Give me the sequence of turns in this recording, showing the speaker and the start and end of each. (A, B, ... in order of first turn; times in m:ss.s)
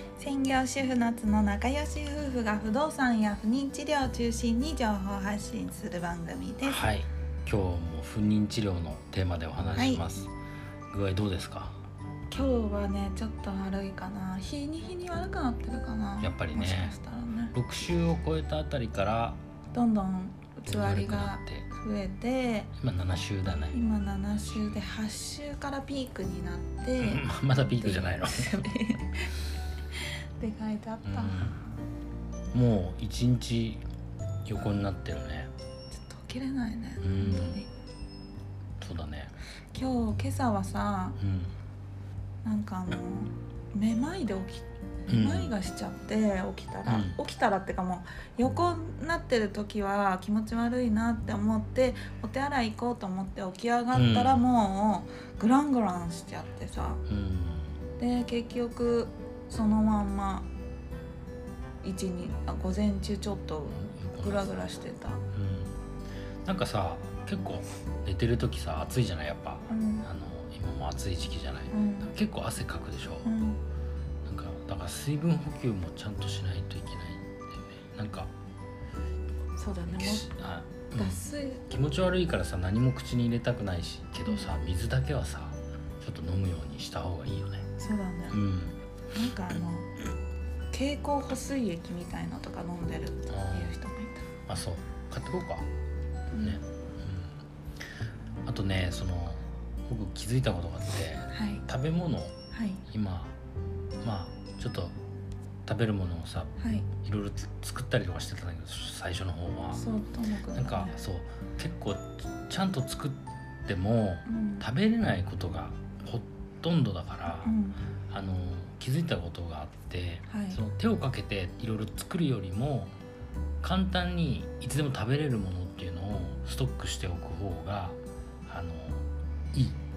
0:00.2-0:06.8 A
0:06.6-0:10.3 B
0:09.7-0:10.0 A
0:10.9-0:11.8 B
0:12.3-0:17.5 A
0:16.2-0:16.9 B
0:17.5-0:19.4 B
0:19.7-0:22.7 A
0:20.7-0:21.6 B
0:22.8-0:23.8 B
0:23.7-0:29.4 A
0:24.4-0:24.8 B
0:27.0-0:28.6 B
0:29.9-0:31.6 A
0:31.0-0:31.6 B
0:32.5-0:33.8 B
0:34.4-0:35.5 B
0:35.9-0:37.7 A
0:37.0-0:37.6 B
0:38.8-0:39.3 B
0:39.7-0:41.2 A
0:41.2-0:41.5 B
0:42.4-0:57.0 A
0:45.1-0:45.5 B
0:46.8-0:47.2 B
0:53.9-0:54.4 B
0:57.1-0:57.7 B
0:58.0-1:00.5 A
1:01.8-1:05.2 A
1:03.7-1:04.6 B
1:05.3-1:05.7 B
1:06.4-1:13.3 B
1:09.7-1:10.1 A
1:11.7-1:12.1 A
1:13.2-1:13.6 A
1:14.2-1:18.3 B
1:19.5-1:20.3 A
1:19.9-1:27.7 B
1:20.9-1:21.6 A
1:27.8-1:28.4 A
1:28.3-1:28.8 B
1:29.1-1:29.9 A
1:30.7-1:34.3 A
1:33.3-1:33.7 B
1:34.5-1:35.7 B
1:36.3-1:36.6 A
1:36.4-1:37.4 B
1:38.4-1:42.4 B
1:41.3-1:41.6 A
1:42.5-1:42.8 A
1:42.9-1:43.3 B
1:44.0-1:45.0 B
1:45.6-1:49.8 B
1:46.6-1:46.9 A
1:49.7-1:50.9 A
1:50.5-1:57.5 B
1:54.3-1:54.6 A
1:57.3-1:57.8 A
1:58.1-2:02.9 B
2:00.3-2:00.6 A
2:03.6-2:09.8 B